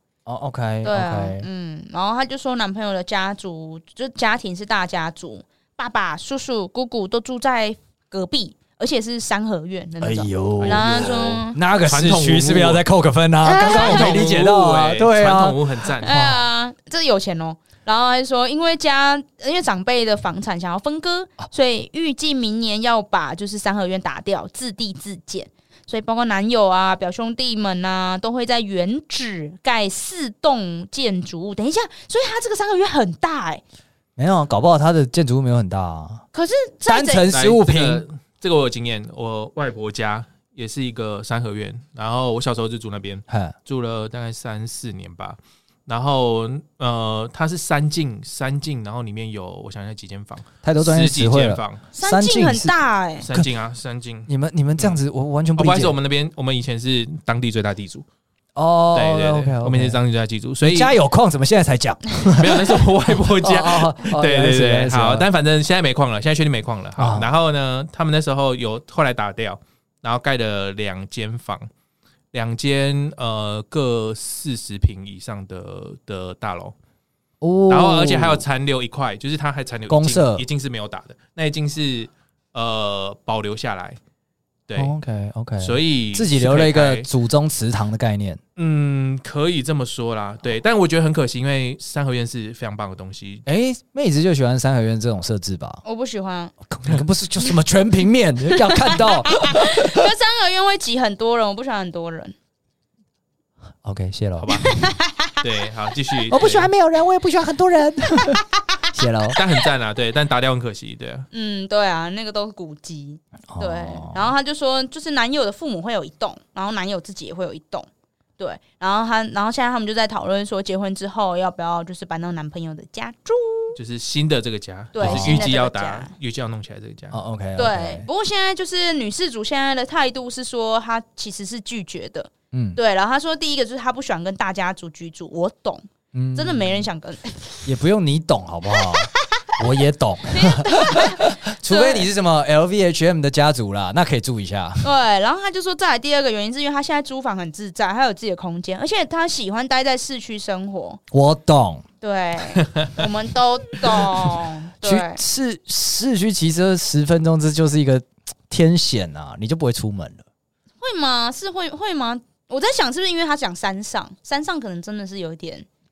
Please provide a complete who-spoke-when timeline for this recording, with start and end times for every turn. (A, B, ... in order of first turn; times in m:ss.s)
0:00.3-0:01.5 A
0:00.8-0:11.6 B
0:10.0-0:16.4 A
0:10.6-0:12.8 C
0:13.4-0:14.2 B
0:13.6-0:16.1 C
0:16.0-0:33.6 B
0:34.2-0:36.2 A
0:36.3-0:37.3 B
0:36.9-0:38.0 A
0:37.3-0:51.8 C
0:43.3-0:43.6 A
0:50.6-0:52.8 A
0:52.0-0:53.3 B
0:53.2-0:55.0 C
0:54.3-0:56.0 A
0:55.6-0:58.1 C
0:58.6-1:00.0 A
0:58.9-1:00.9 C
1:00.6-1:05.3 A
1:02.3-1:11.7 C
1:07.0-1:07.3 A
1:12.3-1:16.8 C
1:17.4-1:18.4 A
1:17.7-1:24.0 C
1:19.9-1:20.4 A
1:24.7-1:24.9 C
1:24.8-1:28.4 A
1:25.6-1:27.1 C
1:28.6-1:33.4 C
1:33.5-1:35.8 A
1:35.8-1:36.6 B
1:36.7-1:40.0 A
1:38.7-1:42.4 B
1:43.8-1:44.7 A
1:44.4-1:44.7 C
1:44.6-1:45.4 B
1:45.4-1:46.7 C
1:46.3-1:48.4 A
1:48.2-1:48.5 B
1:48.9-1:49.4 A
1:49.4-1:51.3 C
1:51.3-1:57.9 B
1:53.5-1:54.3 A
1:58.4-2:03.8 B
2:03.8-2:07.2 C
2:04.9-2:06.1 B
2:05.0-2:05.4 A
2:07.1-2:08.1 A
2:07.6-2:17.6 B
2:12.5-2:12.8 A
2:16.1-2:16.9 A
2:17.6-2:24.9 A
2:18.7-2:19.5 B
2:20.3-2:22.1 B
2:24.8-2:31.0 B
2:31.1-2:31.8 A
2:32.0-2:35.2 B
2:32.6-2:32.9 C
2:34.8-2:40.2 A
2:40.8-2:45.7 B